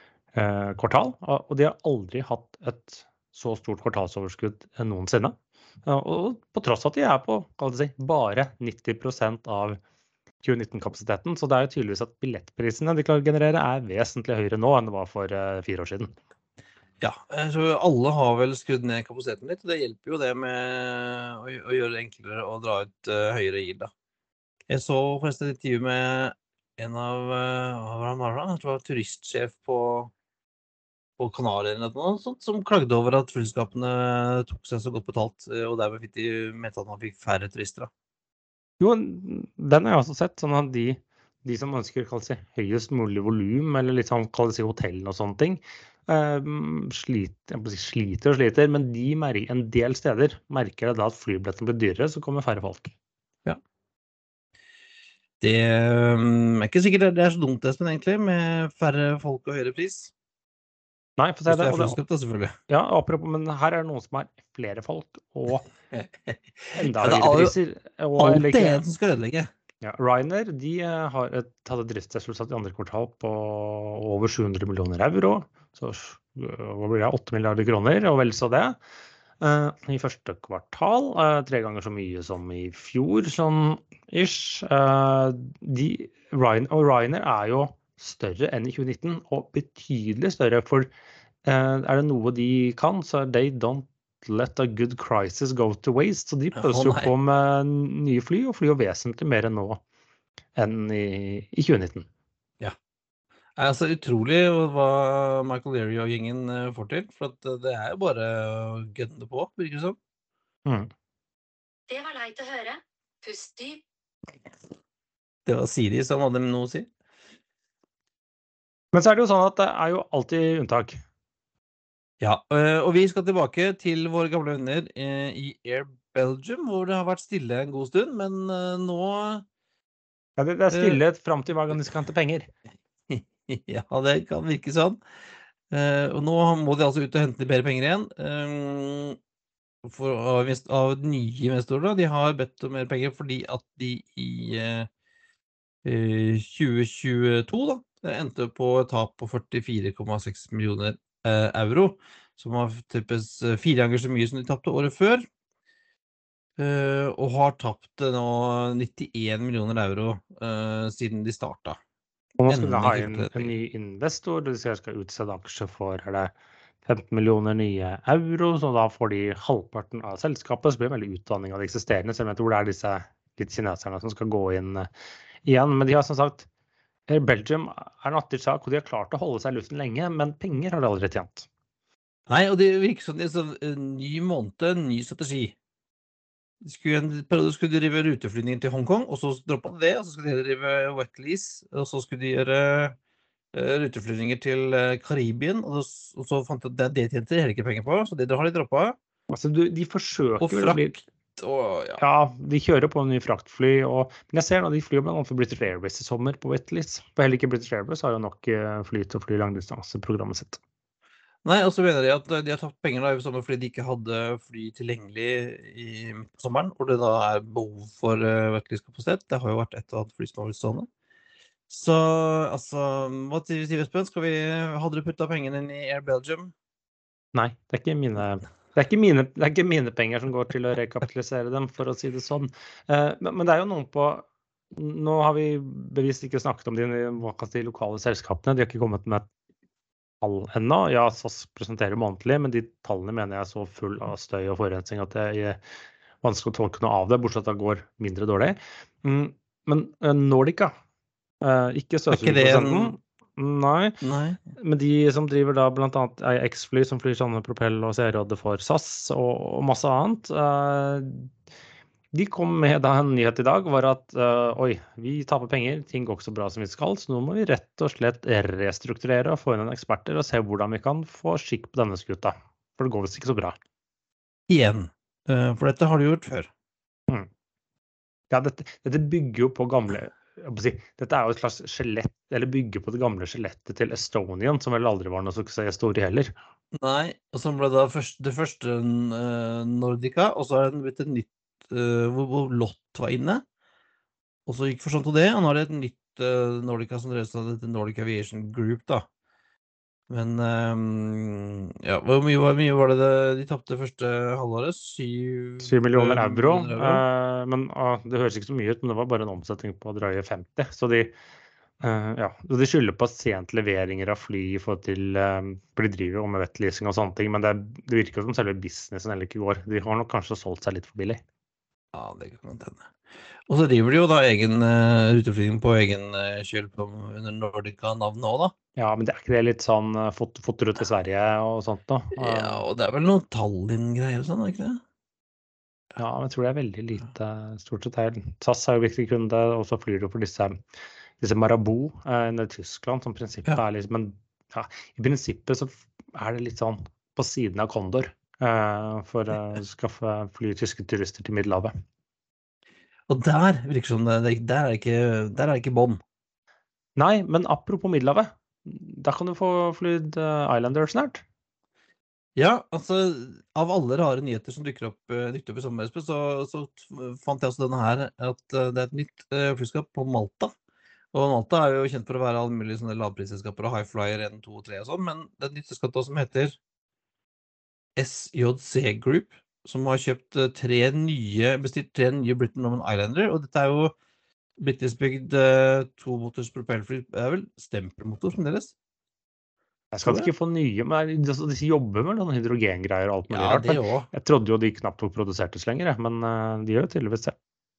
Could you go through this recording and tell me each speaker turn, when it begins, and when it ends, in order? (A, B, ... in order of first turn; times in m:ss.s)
0:00.3-0:09.8 A
0:10.4-0:16.1 A
0:17.0-0:23.9 B
0:24.7-0:30.1 B
0:31.2-0:37.9 B
0:38.8-0:52.9 A
0:55.4-1:00.1 B
1:01.2-1:02.0 A
1:01.5-1:02.6 B
1:02.7-1:05.6 A
1:05.9-1:07.5 B
1:06.8-1:08.8 A
1:08.2-1:09.5 B
1:09.8-1:18.8 A
1:19.4-1:30.9 A
1:31.4-1:39.8 A
1:36.5-1:37.1 B
1:40.6-1:42.1 A
1:43.6-1:50.0 B
1:51.9-1:53.8 C
1:55.4-1:56.9 B
1:58.9-2:01.0 A
2:02.2-2:09.4 B
2:10.4-2:12.5 A
2:10.7-2:11.0 B
2:13.1-2:15.0 B
2:15.7-2:19.2 B
2:19.8-2:24.9 B
2:25.8-2:35.3 B
2:36.6-2:41.8 B
2:42.4-2:46.3 A
2:42.5-2:43.5 B
2:46.8-2:54.9 A
2:55.4-2:56.5 A
2:57.1-3:01.5 A
3:02.3-3:05.5 B
3:06.6-3:13.0 B
3:13.5-3:19.0 B
3:19.3-3:21.0 A
3:20.4-3:20.8 B
3:21.4-3:22.0 B
3:22.0-3:30.6 A
3:31.4-3:40.9 B
3:41.7-3:46.5 B
3:47.3-3:59.2 A
4:00.2-4:05.6 A
4:06.2-4:10.7 A
4:11.4-4:14.0 A
4:12.1-4:13.0 B
4:14.0-4:14.4 B
4:14.6-4:21.3 A
4:22.1-4:33.6 A
4:34.5-4:36.5 B
4:38.3-4:46.3 A
4:46.7-4:53.4 B
4:54.4-4:59.0 B
5:00.1-5:07.0 B
5:05.6-5:11.1 A
5:11.8-5:21.2 A
5:21.9-5:22.9 B
5:23.5-5:28.5 B
5:28.8-5:32.6 A
5:32.1-5:34.8 B
5:36.0-5:40.6 A
5:41.2-5:51.7 A
5:53.1-5:56.0 B
5:57.0-6:01.2 A
6:02.4-6:10.5 B
6:11.1-6:16.6 B
6:18.0-6:23.9 B
6:24.6-6:28.7 B
6:29.9-6:37.3 A
6:30.0-6:30.3 B
6:33.3-6:34.1 B